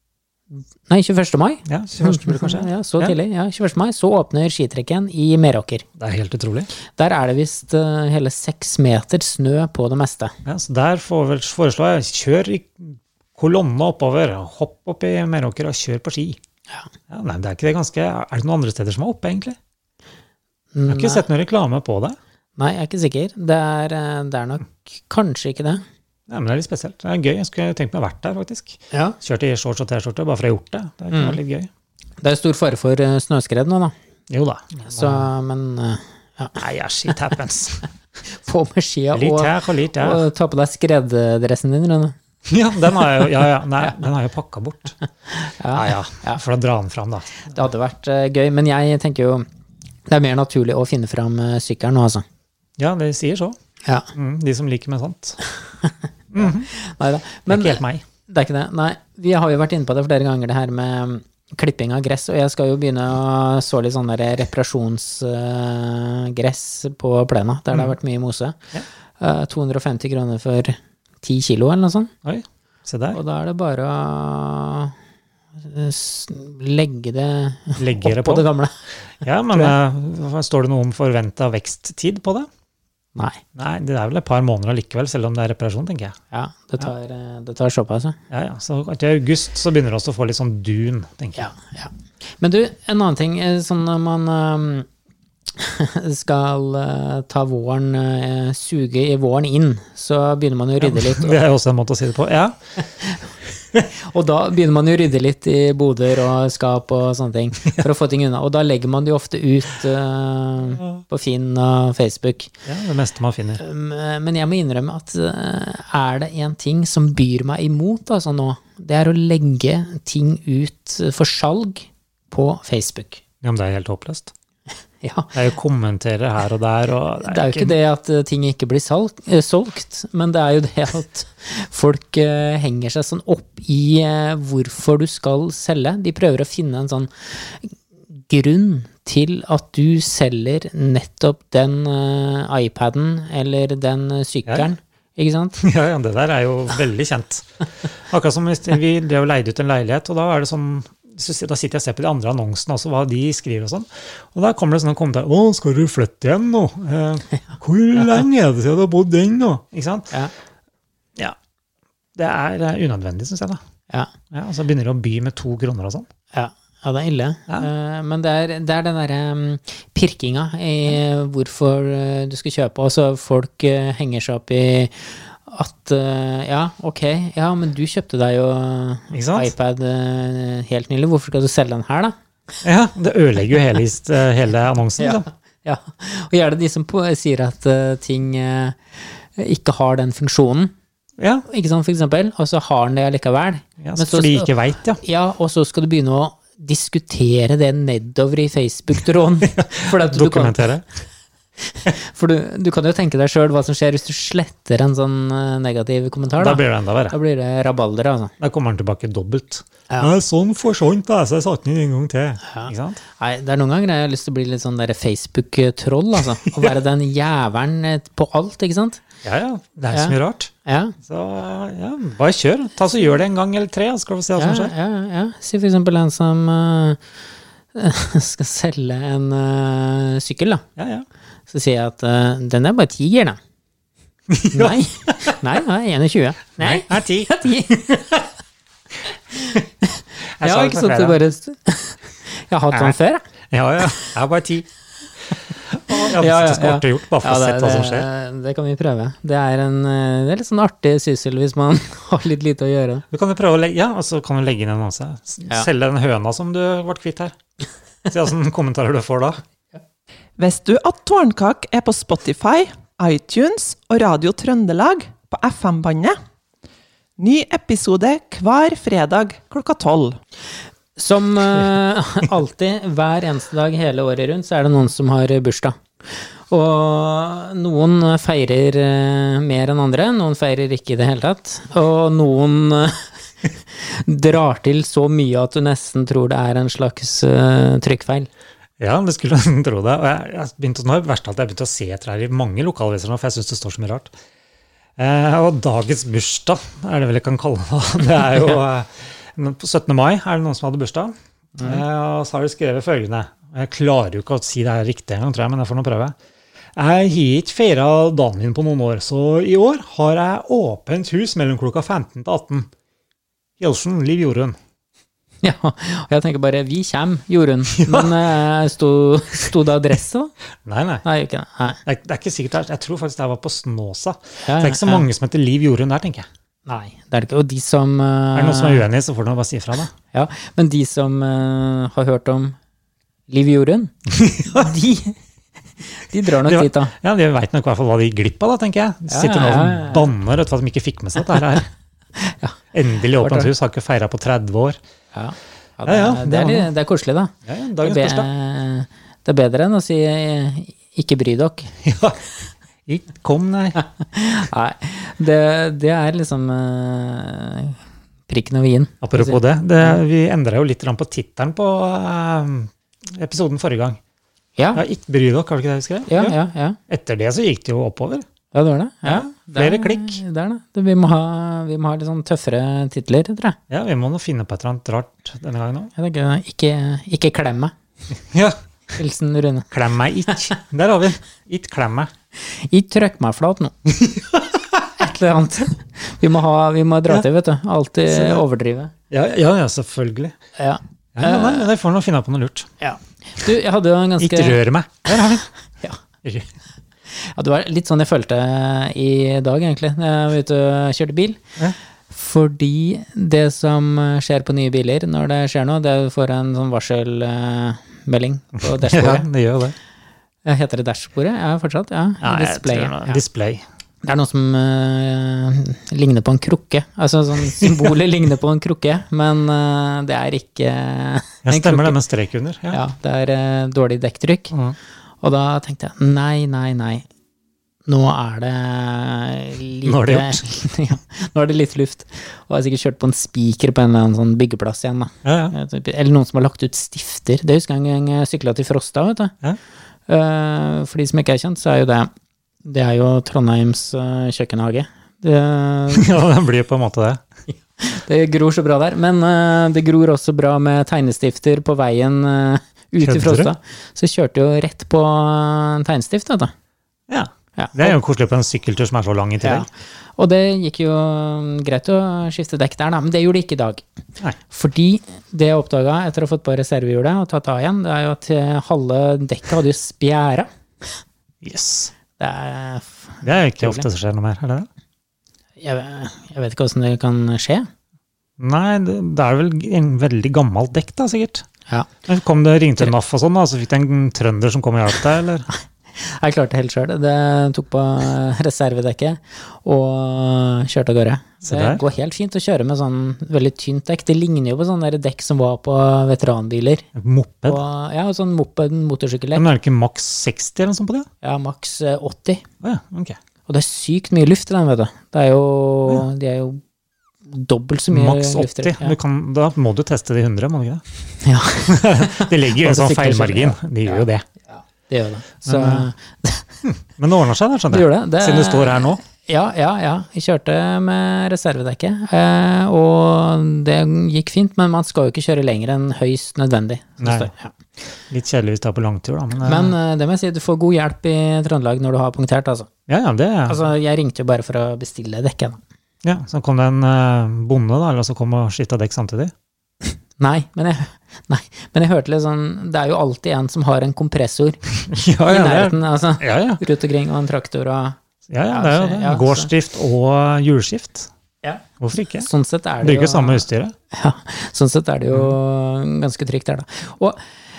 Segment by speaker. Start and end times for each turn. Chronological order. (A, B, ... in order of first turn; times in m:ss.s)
0:00.5-0:05.8 A
0:01.7-0:03.2 B
0:06.0-0:06.7 B
0:06.9-0:10.3 A
0:10.4-0:16.4 B
0:17.1-0:19.6 B
0:20.7-0:21.2 A
0:20.9-0:22.2 B
0:22.6-0:25.8 A
0:26.3-0:31.7 B
0:28.9-0:29.2 A
0:31.1-0:31.4 A
0:32.2-0:33.9 A
0:34.3-0:35.3 B
0:34.9-0:36.6 A
0:36.6-0:37.9 B
0:38.3-0:42.2 A
0:39.1-0:40.2 B
0:42.5-0:45.0 B
0:45.3-0:46.4 A
0:45.7-0:47.5 B
0:47.4-0:49.4 A
0:50.1-0:52.2 A
0:52.8-0:53.6 B
0:53.8-0:54.1 A
0:54.1-0:55.4 B
0:55.7-1:08.6 A
0:56.3-0:56.7 B
0:57.5-0:58.0 B
1:09.2-1:12.1 A
1:12.2-1:13.2 B
1:13.1-1:14.9 A
1:15.6-1:18.7 A
1:17.8-1:18.4 B
1:19.2-1:22.5 B
1:23.1-1:23.4 A
1:23.5-1:26.2 B
1:26.3-1:28.2 A
1:28.3-1:31.5 B
1:31.3-1:34.9 A
1:35.5-1:41.4 A
1:40.8-1:42.6 B
1:42.8-1:52.5 A
1:52.6-1:53.6 B
1:53.6-2:03.2 A
2:03.4-2:04.3 B
2:05.0-2:05.3 A
2:05.3-2:07.8 B
2:07.2-2:25.6 A
2:25.6-2:27.5 B
2:28.1-2:40.1 B
2:42.1-2:43.6 B
2:44.3-2:46.1 B
2:46.3-3:02.2 A
2:59.1-2:59.5 B
3:02.6-3:05.3 B
3:05.0-3:10.7 A
3:11.2-3:11.4 B
3:11.5-3:20.7 A
3:13.8-3:15.0 B
3:19.4-3:20.8 B
3:21.6-3:28.3 A
3:26.4-3:27.2 B
3:28.4-3:33.0 B
3:32.4-3:39.0 A
3:39.2-3:40.5 B
3:39.9-3:40.9 A
3:41.0-3:44.7 B
3:44.4-3:47.0 A
3:47.7-3:50.6 A
3:50.8-3:51.0 B
3:51.5-3:53.4 A
3:54.3-3:55.4 B
3:54.5-3:58.2 A
3:56.6-3:57.3 B
3:59.3-4:03.2 A
4:00.4-4:01.2 B
4:03.5-4:04.7 B
4:05.7-4:08.1 B
4:05.9-4:13.0 A
4:13.1-4:17.4 B
4:18.1-4:19.4 B
4:20.4-4:26.2 C
4:27.2-4:30.2 C
4:31.0-4:35.8 A
4:36.5-4:48.3 A
4:48.8-4:54.1 B
4:55.0-5:06.2 B
5:01.6-5:01.8 A
5:06.8-5:12.7 B
5:13.6-5:14.6 B
5:15.4-5:20.3 A
5:17.7-5:18.2 B
5:20.6-5:21.0 B
5:21.0-5:21.8 A
5:21.8-5:26.3 B
5:24.4-5:25.1 A
5:26.6-5:28.8 A
5:28.3-5:29.9 B
5:30.1-5:32.6 A
5:33.3-5:35.2 A
5:34.1-5:34.7 B
5:35.8-5:36.9 A
5:36.4-5:41.7 B
5:39.1-5:40.1 A
5:42.2-5:42.6 A
5:42.7-5:44.8 B
5:43.2-5:43.5 A
5:45.1-5:51.7 A
5:45.8-5:46.7 B
5:47.4-5:48.3 B
5:51.8-5:52.3 B
5:52.8-5:53.8 B
5:53.7-6:00.0 A
5:59.0-6:04.0 B
6:04.6-6:04.8 A
6:04.7-6:06.4 B
6:06.1-6:06.8 A
6:06.9-6:08.2 B
6:08.5-6:13.6 A
6:09.0-6:10.2 B
6:13.7-6:15.9 B
6:16.0-6:17.7 A
6:18.3-6:18.6 B
6:18.9-6:19.7 A
6:19.7-6:22.1 B
6:22.4-6:24.0 A
6:24.9-6:28.9 A
6:28.1-6:28.4 B
6:29.1-6:30.4 B
6:30.6-6:31.7 A
6:31.2-6:32.7 B
6:32.8-6:34.6 A
6:34.2-6:35.5 B
6:36.2-6:36.5 B
6:37.1-6:41.4 A
6:42.1-6:49.3 A
6:48.6-6:49.8 B
6:50.4-6:53.2 A
6:52.2-6:53.6 B
6:54.0-7:02.0 A
7:01.4-7:02.8 B
7:02.7-7:04.5 A
7:04.5-7:04.8 B
7:05.2-7:07.0 A
7:07.8-7:19.3 A
7:09.8-7:10.4 B
7:15.2-7:15.5 B
7:20.1-7:22.1 A
7:22.6-7:26.1 A
7:25.9-7:27.2 B
7:27.8-7:36.5 A
7:33.0-7:33.5 B
7:37.1-7:39.7 B
7:37.6-7:38.0 A
7:39.4-7:43.8 A
7:44.5-7:50.9 A
7:51.4-7:51.9 B
7:52.2-7:53.8 A
7:53.2-7:54.7 B
7:55.6-7:57.7 A
7:58.4-8:01.4 B
8:02.0-8:05.5 B
8:05.9-8:16.9 A
8:11.4-8:11.8 B
8:17.0-8:17.6 B
8:17.4-8:19.4 A
8:19.3-8:21.1 B
8:21.2-8:22.4 A
8:22.6-8:23.2 B
8:23.5-8:26.6 A
8:27.2-8:29.0 A
8:27.9-8:30.8 B
8:31.2-8:36.5 A
8:31.6-8:34.2 B
8:35.4-8:35.9 B
8:36.6-8:39.0 B
8:37.7-8:47.5 A
8:47.0-8:47.3 B
8:48.1-8:49.7 B
8:49.4-8:52.7 A
8:52.9-8:53.6 B
8:53.5-8:55.6 A
8:56.0-8:59.3 B
8:59.8-9:04.6 A
9:04.9-9:06.6 B
9:05.2-9:08.0 A
9:08.3-9:11.1 B
9:08.5-9:09.5 A
9:11.8-9:12.3 B
9:12.2-9:17.2 A
9:12.8-9:13.7 B